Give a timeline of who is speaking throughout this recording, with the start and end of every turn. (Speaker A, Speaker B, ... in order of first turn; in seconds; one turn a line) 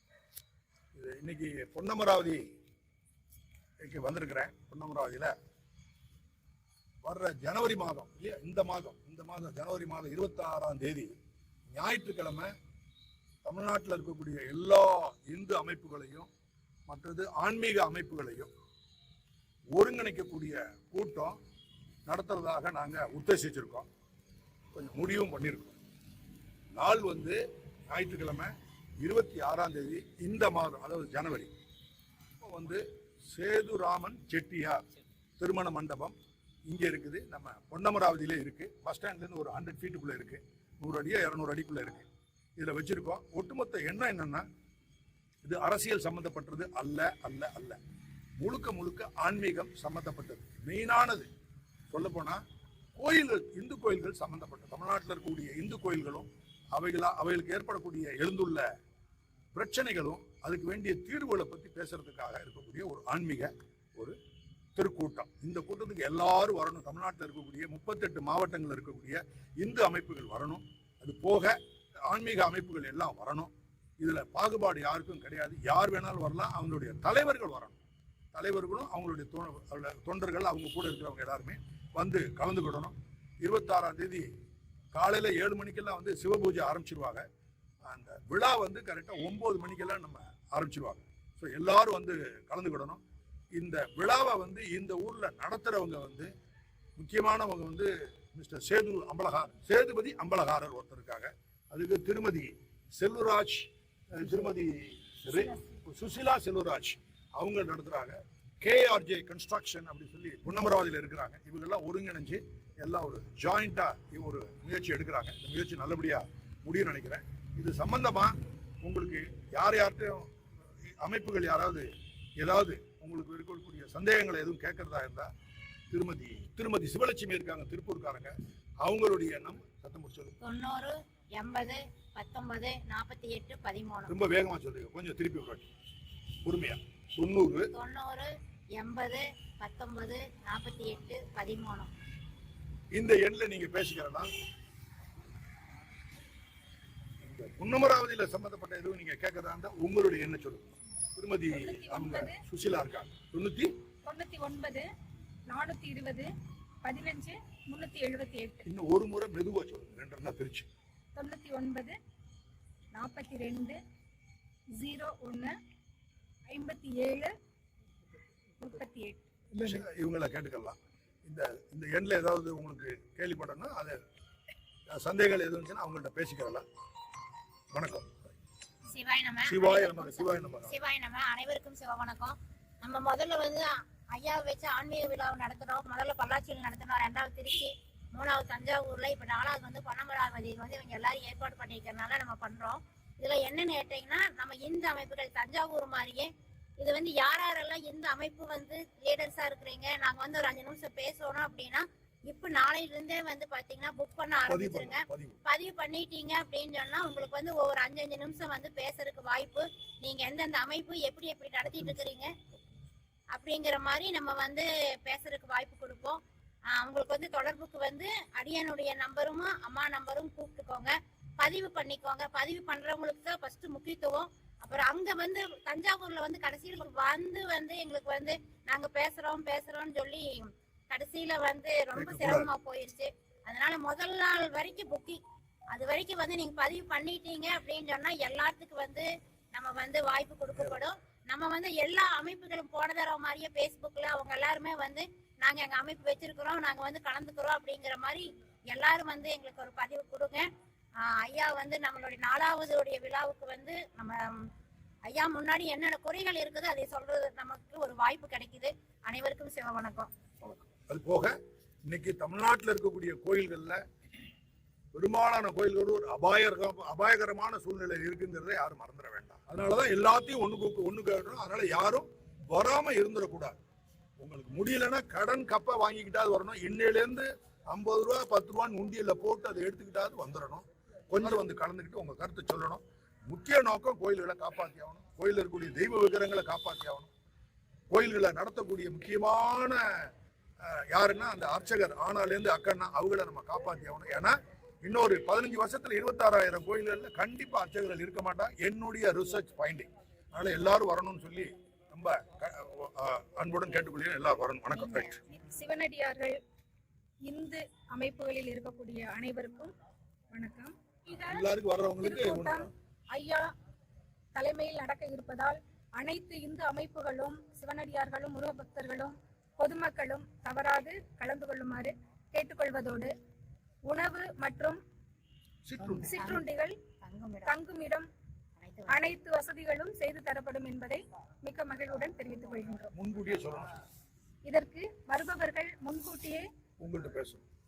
Speaker A: 0.9-2.4
Speaker A: 3.8-5.3
Speaker A: 7.0-11.2
Speaker A: 11.7-12.5
Speaker A: 13.4-16.3
Speaker A: 16.9-18.5
Speaker A: 19.7-21.4
Speaker A: 22.1-23.9
Speaker A: 24.7-25.8
Speaker A: 26.7-27.4
Speaker A: 27.9-31.5
Speaker A: 32.4-34.9
Speaker A: 35.4-36.1
Speaker A: 36.7-44.4
Speaker A: 45.4-47.8
Speaker A: 48.4-51.3
Speaker A: 51.9-52.4
Speaker A: 53.0-58.6
Speaker A: 59.5-64.2
Speaker A: 64.8-77.8
Speaker A: 78.3-84.3
Speaker A: 84.9-87.2
Speaker A: 87.8-93.0
Speaker A: 93.5-96.3
Speaker A: 97.0-120.3
Speaker A: 120.8-125.3
Speaker A: 125.9-130.4
Speaker B: 130.4-134.1
Speaker A: 134.1-135.7
Speaker A: 136.4-137.7
Speaker B: 137.7-141.9
Speaker A: 142.9-144.3
Speaker A: 147.2-153.7
Speaker C: 151.5-152.4
Speaker C: 154.0-154.9
Speaker C: 155.5-156.3
Speaker C: 156.8-158.7
Speaker A: 158.6-160.7
Speaker C: 161.1-162.0
Speaker C: 162.9-163.8
Speaker C: 164.7-165.5
Speaker C: 166.5-167.3
Speaker C: 168.6-169.2
Speaker A: 169.6-174.0
Speaker A: 174.9-176.6
Speaker A: 177.7-178.3
Speaker B: 178.9-212.3
Speaker A: 179.4-180.8
Speaker A: 204.5-205.4
Speaker A: 211.7-212.0
Speaker B: 213.3-216.2
Speaker B: 216.7-235.2
Speaker A: 231.9-232.5
Speaker B: 235.7-250.5
Speaker A: 240.5-240.8
Speaker B: 251.0-254.5
Speaker B: 255.1-260.1
Speaker A: 260.4-261.3
Speaker A: 261.9-263.8
Speaker A: 264.9-273.6
Speaker A: 274.2-287.1
Speaker A: 287.9-290.1
Speaker A: 290.6-305.2
Speaker C: 305.3-306.4
Speaker C: 307.2-309.7
Speaker C: 310.3-311.4
Speaker A: 311.2-312.7
Speaker C: 312.0-313.5
Speaker C: 314.3-323.1
Speaker C: 323.9-324.8
Speaker A: 325.6-326.4
Speaker C: 326.0-326.8
Speaker B: 327.0-327.5
Speaker C: 327.4-328.1
Speaker B: 328.6-329.1
Speaker C: 328.9-332.9
Speaker A: 332.9-333.7
Speaker C: 334.4-336.4
Speaker A: 336.8-337.4